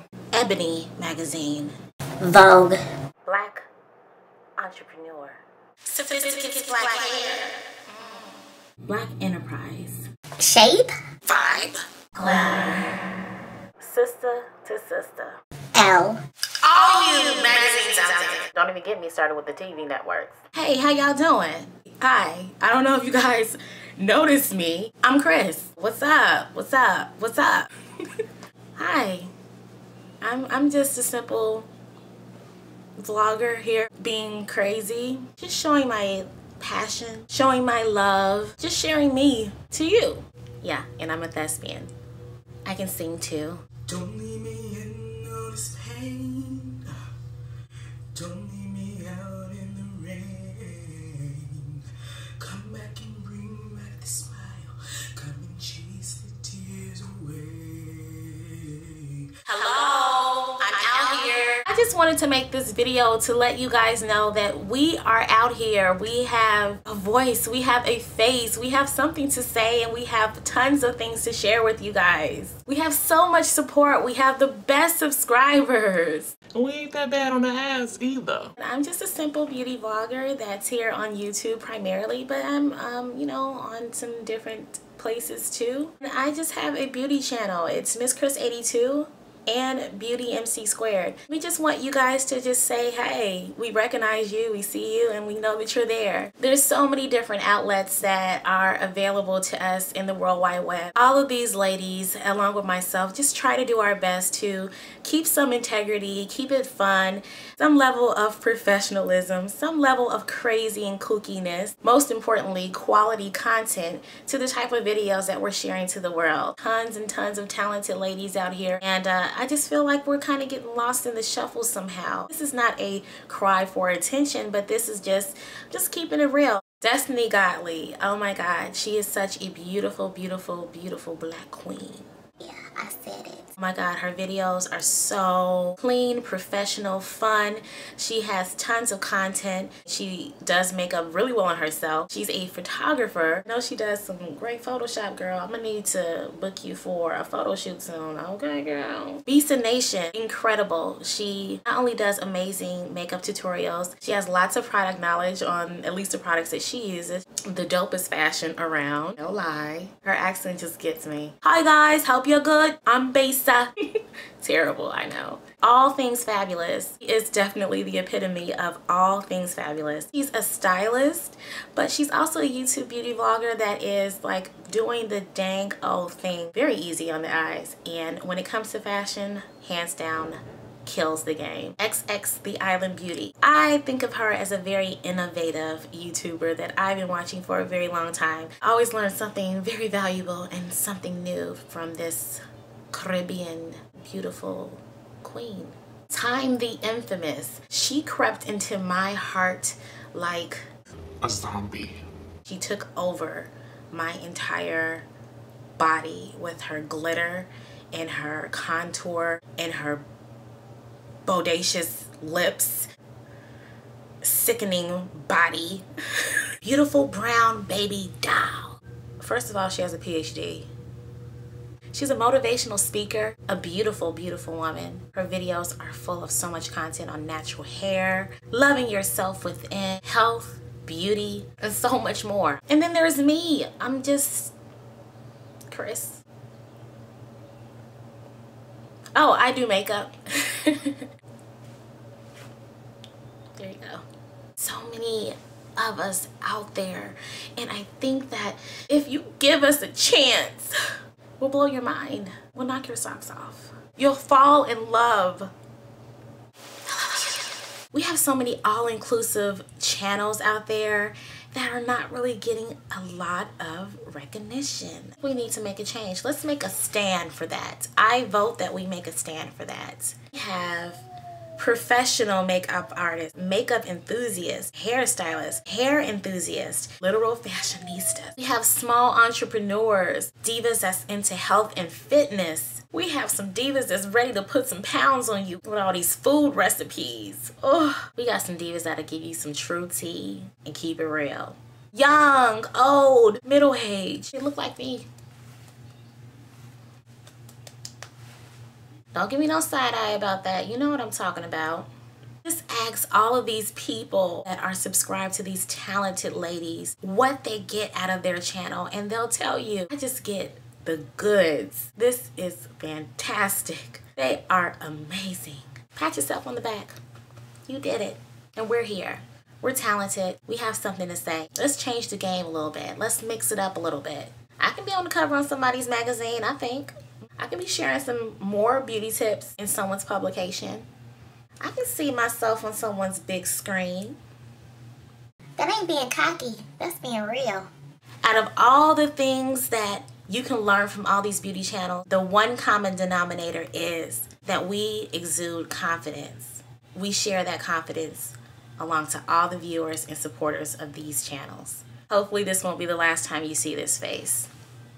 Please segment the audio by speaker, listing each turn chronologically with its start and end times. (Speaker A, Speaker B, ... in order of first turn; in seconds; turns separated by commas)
Speaker A: 0.3-1.7, Speaker B: 2.2-2.8, Speaker A: 3.2-3.6, Speaker A: 4.6-5.4, Speaker A: 5.9-10.1, Speaker B: 10.4-10.9, Speaker A: 11.2-12.9, Speaker A: 13.8-15.4, Speaker B: 15.7-16.2, Speaker A: 16.6-27.7, Speaker A: 28.8-29.3, Speaker A: 30.2-31.7, Speaker A: 33.0-41.9, Speaker A: 42.6-43.8, Speaker C: 43.9-46.8, Speaker C: 48.1-51.7, Speaker C: 52.4-58.4, Speaker A: 59.5-76.3, Speaker D: 76.5-78.5, Speaker A: 78.6-132.1, Speaker B: 132.4-133.5, Speaker A: 133.6-163.7, Speaker A: 164.4-192.4, Speaker A: 192.9-200.6, Speaker C: 201.2-201.9, Speaker D: 201.4-201.7, Speaker A: 202.4-205.1, Speaker A: 205.8-210.0, Speaker A: 211.2-212.9, Speaker A: 214.2-215.8, Speaker A: 216.6-220.7, Speaker A: 221.9-234.5, Speaker A: 235.7-236.2, Speaker A: 239.2-241.1, Speaker A: 243.6-244.0, Speaker A: 244.6-250.7, Speaker A: 251.4-255.5, Speaker A: 256.9-271.0, Speaker A: 271.6-295.1, Speaker A: 299.1-301.9, Speaker A: 302.4-316.9, Speaker A: 317.7-330.9, Speaker A: 331.6-334.2, Speaker B: 335.6-337.7, Speaker A: 338.2-354.5